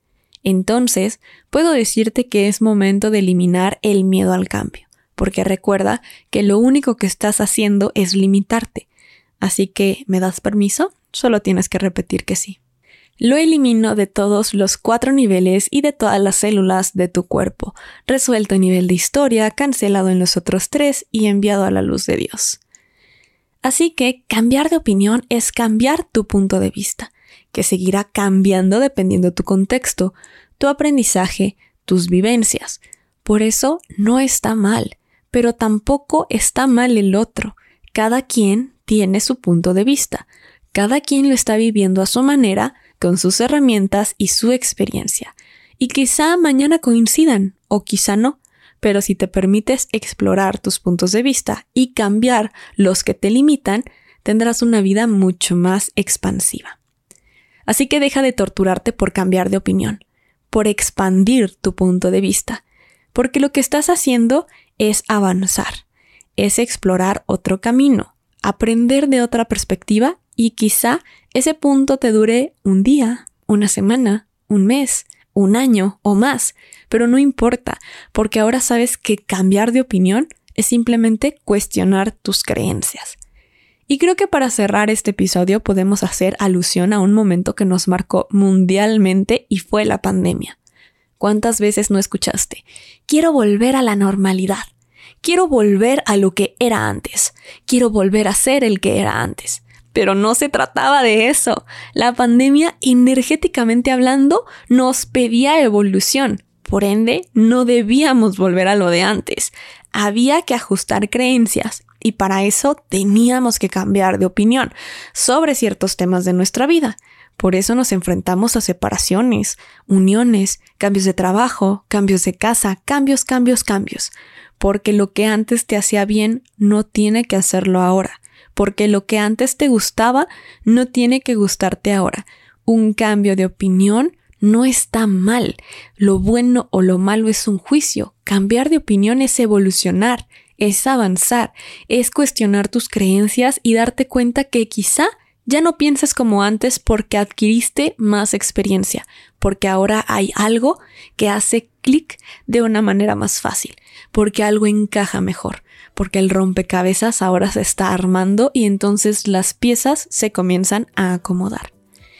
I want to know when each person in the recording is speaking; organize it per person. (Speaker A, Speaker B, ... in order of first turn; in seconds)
Speaker A: 0.4-8.9, 9.4-12.6, 13.2-22.6, 23.6-56.8, 57.7-62.6, 63.1-65.8, 66.4-83.2, 83.9-90.6, 91.2-94.7, 95.2-161.7